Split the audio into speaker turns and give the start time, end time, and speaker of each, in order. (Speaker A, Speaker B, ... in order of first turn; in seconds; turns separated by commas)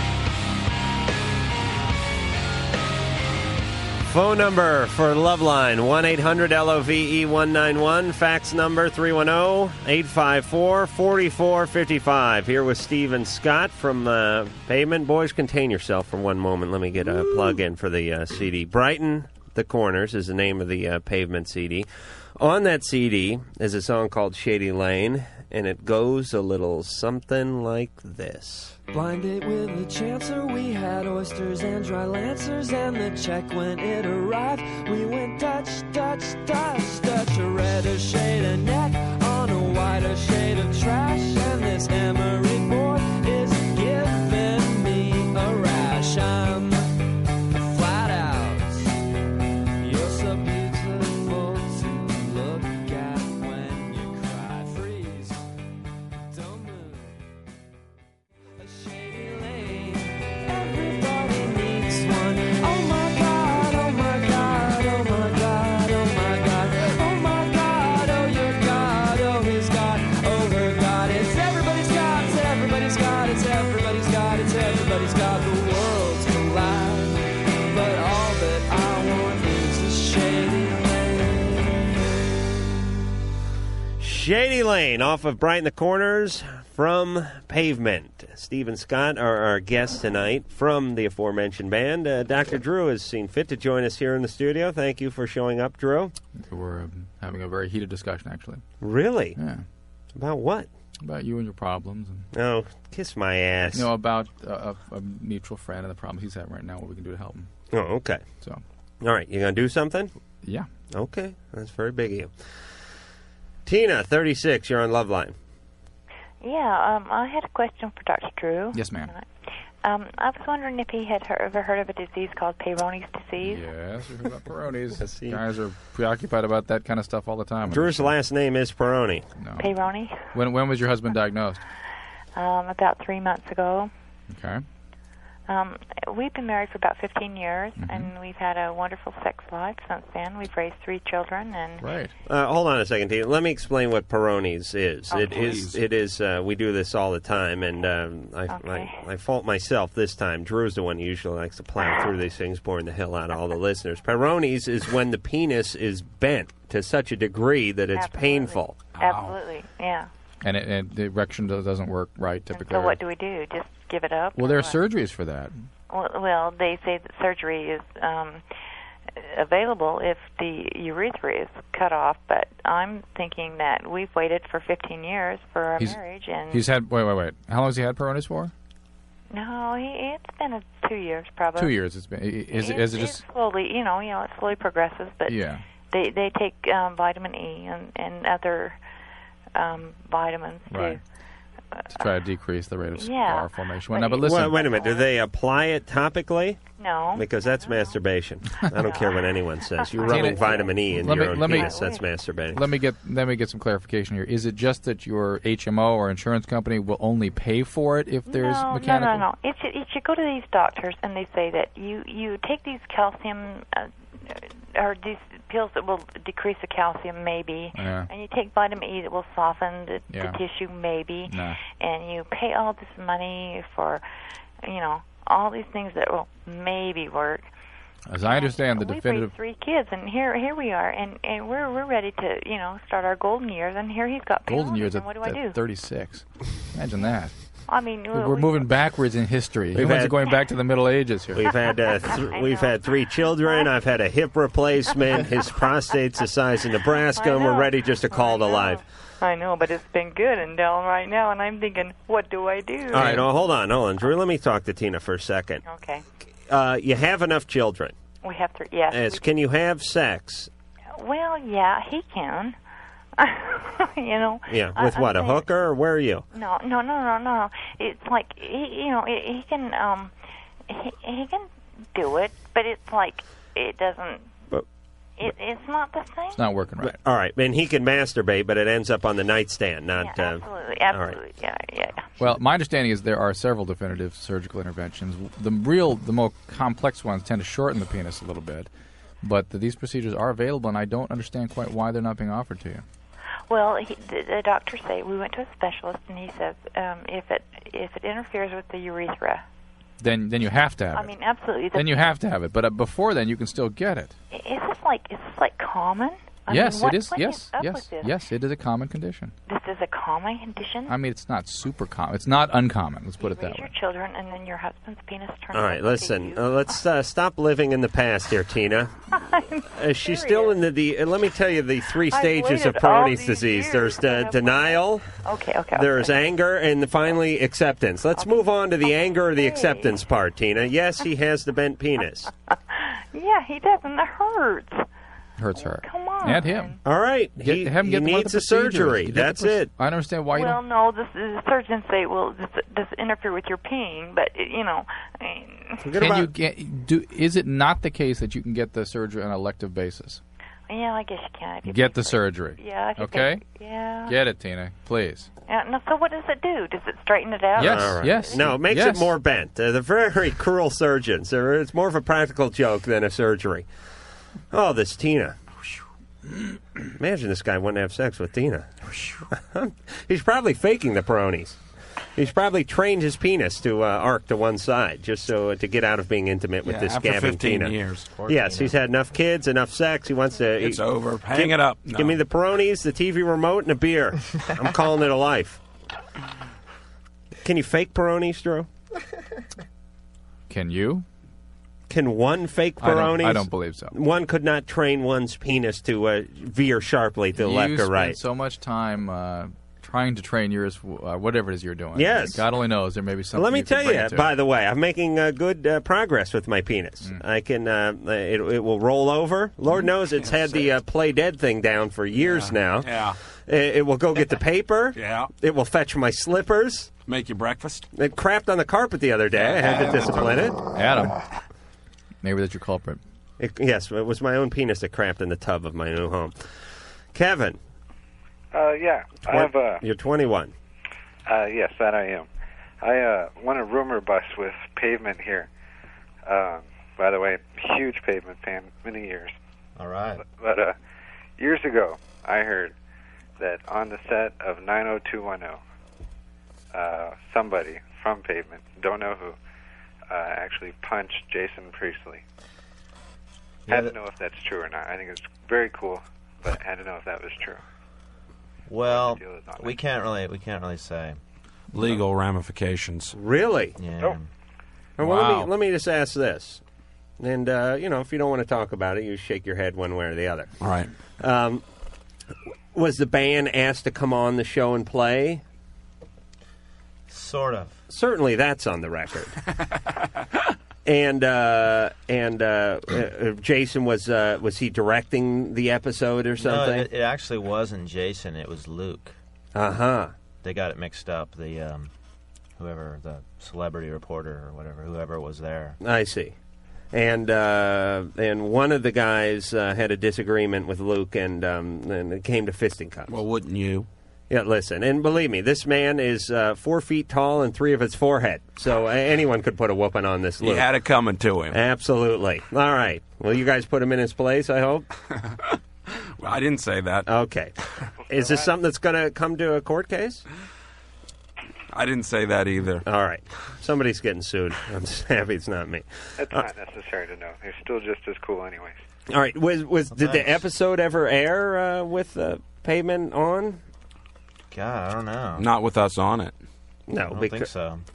Speaker A: 4.0-28.8, Speaker B: 28.9-46.9, Speaker B: 47.5-49.0, Speaker B: 49.8-55.4, Speaker B: 56.3-57.2, Speaker B: 58.6-81.8, Speaker A: 84.0-96.1, Speaker C: 96.3-98.6, Speaker A: 98.8-99.4, Speaker C: 99.3-99.6, Speaker A: 100.1-100.7, Speaker C: 101.0-102.2, Speaker A: 102.3-103.9, Speaker C: 103.7-107.5, Speaker A: 107.7-108.2, Speaker A: 109.0-110.1, Speaker A: 110.9-112.3, Speaker A: 113.7-115.3, Speaker D: 116.4-119.2, Speaker C: 118.7-119.1, Speaker D: 119.8-123.6, Speaker C: 123.4-128.1, Speaker A: 125.0-125.4, Speaker A: 127.7-129.3, Speaker C: 129.4-129.7, Speaker D: 129.6-130.3, Speaker C: 130.3-131.6, Speaker D: 132.3-133.9, Speaker C: 134.3-134.6, Speaker D: 135.5-141.9, Speaker C: 137.8-138.1, Speaker C: 141.8-142.1, Speaker A: 142.2-158.9, Speaker E: 145.1-145.8, Speaker D: 148.5-149.0, Speaker D: 157.9-160.1, Speaker E: 158.9-159.4, Speaker C: 160.4-163.0, Speaker D: 162.5-164.8, Speaker C: 164.4-165.5, Speaker D: 165.9-168.4, Speaker D: 169.1-176.6, Speaker C: 175.8-178.5, Speaker D: 179.3-181.7, Speaker C: 181.6-183.2, Speaker D: 182.5-188.8, Speaker C: 185.3-185.6, Speaker D: 189.5-191.0, Speaker C: 190.7-191.0, Speaker C: 191.9-194.6, Speaker D: 193.0-195.1, Speaker A: 194.2-202.6, Speaker D: 196.8-198.0, Speaker D: 198.8-202.1, Speaker C: 200.0-201.8, Speaker C: 202.5-209.2, Speaker D: 208.3-224.0, Speaker C: 217.7-218.1, Speaker C: 220.1-220.4, Speaker C: 221.3-221.6, Speaker D: 224.6-227.5, Speaker C: 228.1-229.3, Speaker D: 228.2-235.6, Speaker C: 234.5-237.4, Speaker D: 237.7-238.7, Speaker C: 238.1-241.4, Speaker A: 239.7-240.3, Speaker A: 241.3-248.8, Speaker D: 241.5-243.7, Speaker D: 247.2-253.2, Speaker A: 252.9-255.6, Speaker D: 255.7-256.0, Speaker A: 256.5-257.9, Speaker D: 258.2-259.2, Speaker A: 258.9-260.5, Speaker D: 260.9-262.6, Speaker D: 263.2-265.4, Speaker A: 264.5-266.2, Speaker D: 266.3-270.1, Speaker D: 270.7-274.4, Speaker D: 275.2-276.4, Speaker C: 276.3-277.0, Speaker A: 276.8-281.2, Speaker D: 279.9-282.1, Speaker C: 282.2-288.7, Speaker C: 289.2-292.8, Speaker D: 293.5-299.4, Speaker C: 300.0-301.1, Speaker D: 300.9-302.1, Speaker C: 301.7-304.1, Speaker D: 304.3-308.1, Speaker C: 306.5-309.3, Speaker D: 309.5-310.9, Speaker C: 310.9-313.7, Speaker D: 313.2-316.8, Speaker A: 315.5-318.9, Speaker D: 319.1-320.6, Speaker A: 319.8-325.1, Speaker D: 322.1-326.2, Speaker A: 325.7-332.3, Speaker D: 328.1-330.0, Speaker D: 332.5-334.9, Speaker C: 335.4-336.8, Speaker D: 335.6-336.8, Speaker A: 336.8-339.7, Speaker C: 337.4-340.6, Speaker D: 340.3-345.8, Speaker A: 345.8-346.3, Speaker C: 346.0-350.2, Speaker D: 350.7-354.2, Speaker C: 351.6-353.4, Speaker C: 354.0-355.3, Speaker D: 355.5-358.5, Speaker A: 357.5-363.7, Speaker C: 357.6-359.1, Speaker A: 364.5-365.4, Speaker A: 367.0-371.6, Speaker A: 372.1-385.6, Speaker E: 376.6-378.1, Speaker F: 378.1-378.8, Speaker E: 380.6-382.2, Speaker A: 387.4-388.7, Speaker C: 390.5-391.1, Speaker A: 391.9-398.2, Speaker C: 392.8-393.9, Speaker C: 397.3-404.3, Speaker A: 401.9-402.4, Speaker A: 403.3-416.9, Speaker E: 409.8-410.7, Speaker E: 412.1-413.2, Speaker E: 414.9-415.3, Speaker E: 417.1-417.9, Speaker A: 417.9-420.6, Speaker E: 419.3-420.5, Speaker C: 420.7-421.2, Speaker C: 422.2-423.0, Speaker A: 423.4-426.6, Speaker A: 427.1-427.6, Speaker G: 428.5-429.8, Speaker A: 429.3-430.5, Speaker G: 431.3-432.3, Speaker G: 432.8-435.5, Speaker G: 436.2-439.3, Speaker F: 439.8-440.2, Speaker G: 440.2-440.8, Speaker G: 441.4-442.7, Speaker G: 443.4-445.6, Speaker G: 446.7-449.4, Speaker G: 450.1-452.2, Speaker F: 453.7-453.9, Speaker G: 453.7-457.6, Speaker F: 458.7-461.2, Speaker G: 458.8-459.8, Speaker E: 461.7-463.1, Speaker A: 463.1-463.8, Speaker F: 463.8-464.3, Speaker A: 465.0-466.6, Speaker C: 465.0-465.5, Speaker A: 467.2-470.5, Speaker E: 470.6-470.9, Speaker A: 471.2-471.6, Speaker A: 472.7-475.4, Speaker F: 477.1-477.8, Speaker A: 477.9-479.4, Speaker A: 480.8-486.9, Speaker F: 486.4-489.1, Speaker A: 489.5-490.1, Speaker F: 490.4-491.9, Speaker F: 492.6-495.8, Speaker A: 495.8-496.3, Speaker A: 496.9-503.1, Speaker E: 503.1-503.9, Speaker A: 504.3-510.7, Speaker E: 510.4-511.6, Speaker A: 511.5-514.9, Speaker E: 516.2-517.1, Speaker A: 517.0-517.5, Speaker A: 518.1-520.2, Speaker G: 518.1-518.5, Speaker E: 521.7-522.8, Speaker A: 522.8-526.5, Speaker G: 526.2-528.8, Speaker A: 529.1-533.6, Speaker F: 529.9-530.4, Speaker F: 534.5-535.5, Speaker E: 535.4-536.4, Speaker A: 536.9-537.5, Speaker F: 537.0-537.8